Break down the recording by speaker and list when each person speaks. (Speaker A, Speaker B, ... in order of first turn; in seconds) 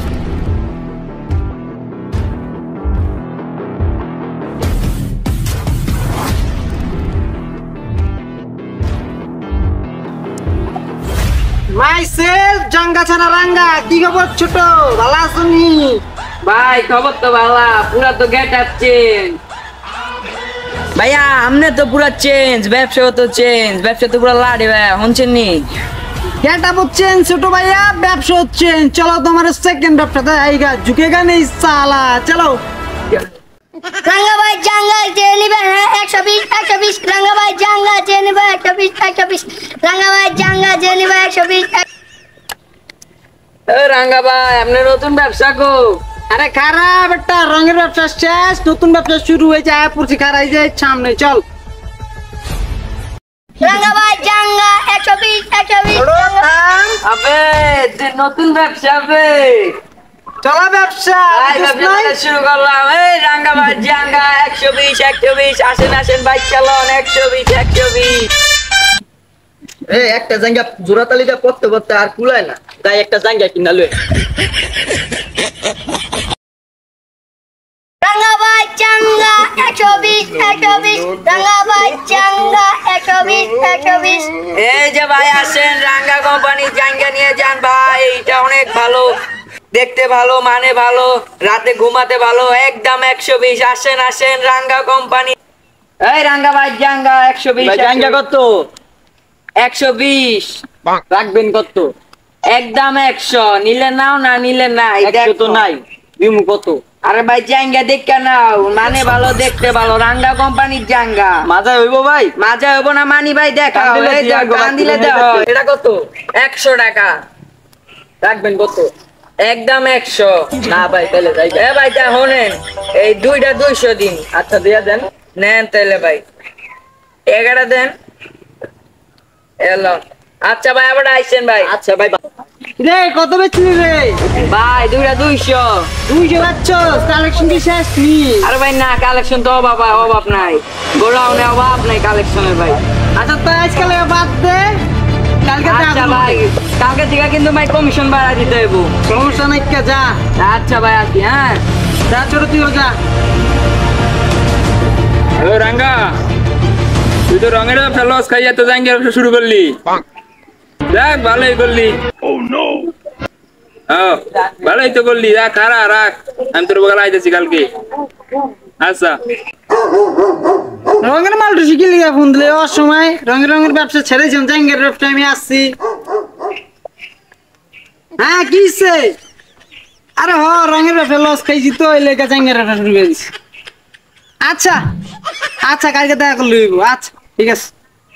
Speaker A: 11.7-16.0, 26.4-32.6, 46.3-51.4, 56.0-57.0, 60.4-62.2, 132.8-134.2, 136.1-138.5, 143.2-144.8, 145.4-146.4, 149.1-150.2, 152.1-152.9, 171.0-175.8, 178.2-179.2, 180.2-183.3, 184.4-184.8, 185.6-187.7
Speaker B: 16.4-19.4, 21.0-25.7, 43.7-46.0, 57.0-59.8, 61.3-68.3, 84.5-89.1, 89.7-95.4, 96.0-98.2, 99.6-100.6, 102.5-105.7, 107.0-111.4, 112.4-115.5, 116.4-117.2, 119.4-120.6, 121.5-124.3, 125.3-126.2, 127.3-127.9, 129.6-131.7, 134.3-135.9, 138.4-142.8, 145.6-148.9, 150.4-151.6
Speaker C: 34.0-41.8, 53.6-56.5, 78.0-84.3
Speaker D: 69.9-73.9, 97.6-98.7, 101.1-101.9, 105.0-106.8, 111.5-112.3, 113.7-116.0, 118.2-118.9, 120.7-121.6, 124.3-125.1, 131.6-132.2
Speaker E: 155.4-156.2, 157.3-160.0, 160.9-162.0, 163.9-167.7, 168.8-169.2